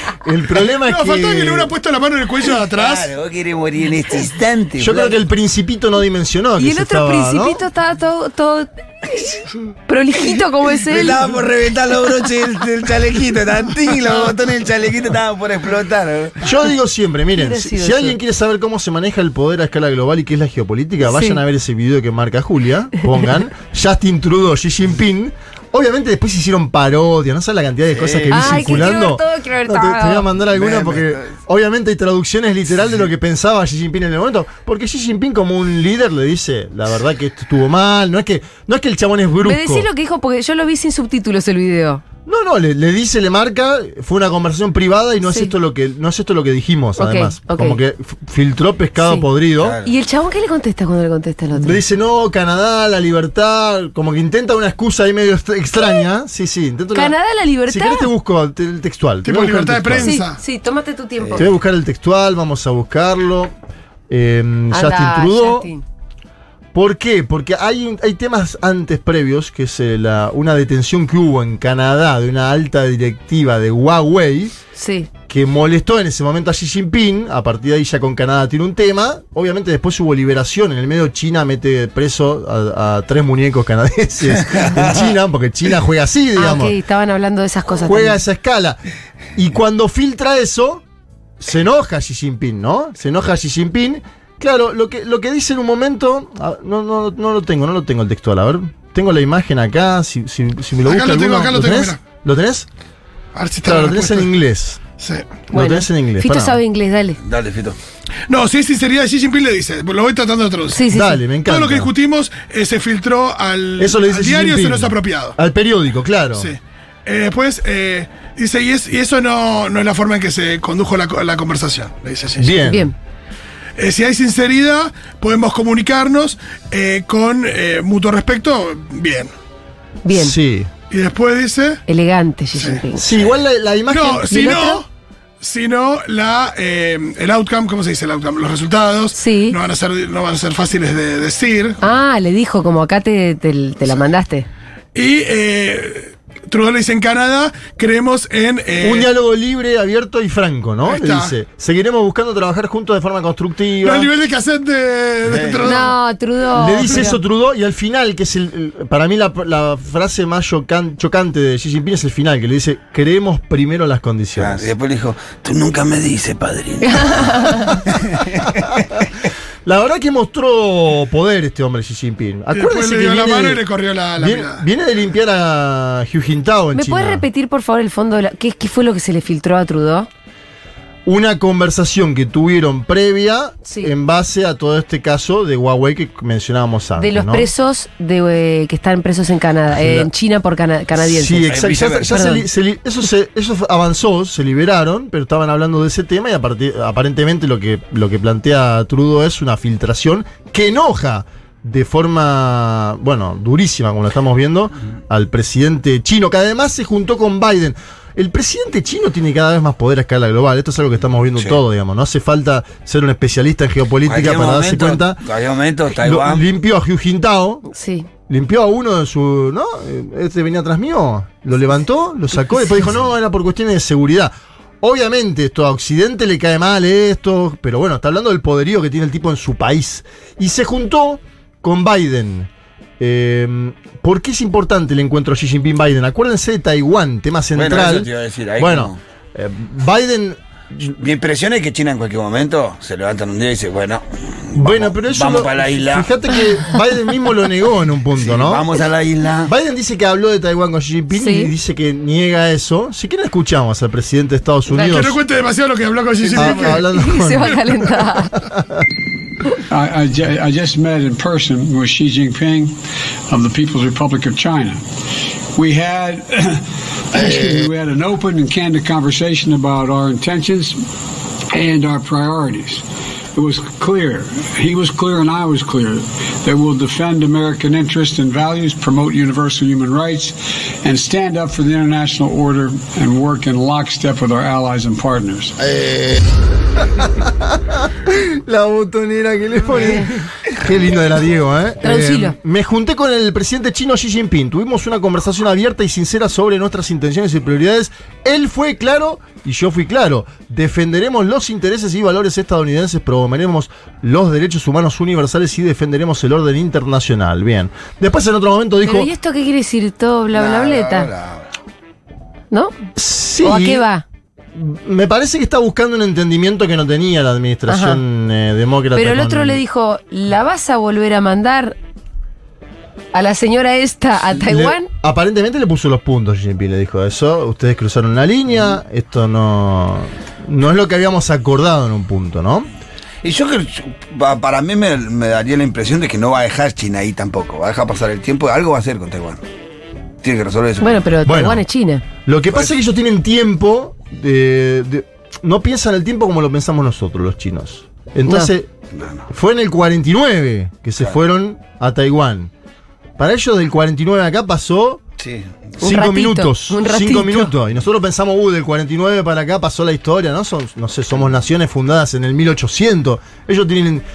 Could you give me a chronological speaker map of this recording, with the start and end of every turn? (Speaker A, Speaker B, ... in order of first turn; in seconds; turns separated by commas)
Speaker A: 0.2-1.7, Speaker B: 0.8-3.1, Speaker C: 2.7-5.2, Speaker A: 4.8-7.6, Speaker D: 6.6-11.2, Speaker C: 10.9-16.4, Speaker A: 16.4-39.9, Speaker D: 17.4-18.2, Speaker D: 21.0-21.4, Speaker C: 27.9-28.9, Speaker D: 28.3-30.3, Speaker C: 30.5-31.2, Speaker D: 39.4-42.0, Speaker A: 42.2-49.8, Speaker D: 45.2-45.5, Speaker D: 47.0-47.8, Speaker D: 49.0-49.2, Speaker C: 49.6-49.9, Speaker D: 49.8-51.8, Speaker A: 51.5-60.2, Speaker D: 56.9-58.1, Speaker B: 59.2-60.4, Speaker D: 60.0-61.5, Speaker A: 61.4-63.5, Speaker A: 64.1-65.7, Speaker D: 64.7-65.8, Speaker A: 66.7-74.5, Speaker D: 74.8-75.1, Speaker A: 75.3-86.8, Speaker C: 84.5-85.1, Speaker D: 86.4-88.2, Speaker A: 87.8-88.8, Speaker A: 89.3-90.8, Speaker A: 91.4-102.7, Speaker B: 100.8-102.0, Speaker B: 103.3-104.3, Speaker A: 103.6-104.8, Speaker B: 105.0-105.4, Speaker A: 105.5-106.6, Speaker D: 105.5-107.2, Speaker C: 107.2-107.8, Speaker B: 108.3-115.4, Speaker D: 110.7-111.2, Speaker A: 110.9-111.9, Speaker A: 113.8-116.5, Speaker B: 116.3-122.6, Speaker A: 122.4-122.9, Speaker D: 122.7-122.9, Speaker B: 123.8-129.3, Speaker D: 130.0-130.4, Speaker A: 130.1-130.7, Speaker B: 130.9-131.8, Speaker D: 131.9-133.1, Speaker B: 132.5-132.8, Speaker A: 132.9-134.5, Speaker B: 133.9-134.9, Speaker D: 134.2-134.8, Speaker B: 135.4-141.8, Speaker D: 139.1-139.6, Speaker D: 141.8-144.5, Speaker B: 144.9-149.1, Speaker A: 148.8-154.1, Speaker B: 150.8-151.3, Speaker B: 153.8-156.0, Speaker C: 155.3-155.8, Speaker D: 155.6-157.2, Speaker A: 156.6-164.7, Speaker C: 164.4-167.3, Speaker D: 166.8-167.8, Speaker C: 167.9-168.9, Speaker A: 168.4-169.0, Speaker A: 169.6-173.6, Speaker B: 172.5-174.6, Speaker A: 174.2-177.2, Speaker D: 176.7-180.1, Speaker A: 181.1-187.5, Speaker D: 183.7-183.9, Speaker D: 187.0-191.5, Speaker A: 189.7-190.1, Speaker A: 191.0-215.2, Speaker C: 191.4-192.2, Speaker D: 192.1-192.4, Speaker C: 214.1-216.4, Speaker A: 215.9-217.7, Speaker D: 217.7-218.1, Speaker A: 218.3-240.9, Speaker C: 237.5-239.0, Speaker C: 240.9-246.1, Speaker A: 244.5-248.7, Speaker C: 248.1-249.5, Speaker A: 249.4-255.2, Speaker D: 251.1-251.5, Speaker B: 254.7-257.6, Speaker A: 256.3-257.6, Speaker D: 256.7-258.3, Speaker E: 259.7-262.8, Speaker E: 263.3-264.8, Speaker E: 265.5-270.9, Speaker E: 271.5-285.6, Speaker C: 285.6-286.2, Speaker A: 287.0-309.1, Speaker D: 291.8-292.4, Speaker D: 308.8-311.1, Speaker C: 310.3-311.5, Speaker A: 312.9-313.9, Speaker D: 313.4-314.0, Speaker A: 314.5-319.6, Speaker D: 317.7-318.0, Speaker D: 318.9-321.8, Speaker D: 323.1-324.9, Speaker A: 324.4-332.7, Speaker C: 333.2-339.4, Speaker C: 340.2-340.9, Speaker D: 340.8-342.0, Speaker A: 341.2-341.6, Speaker A: 342.2-348.7, Speaker C: 348.9-349.2, Speaker A: 349.3-352.5, Speaker A: 353.2-355.0, Speaker C: 355.2-355.5, Speaker A: 355.8-364.1, Speaker D: 355.8-357.5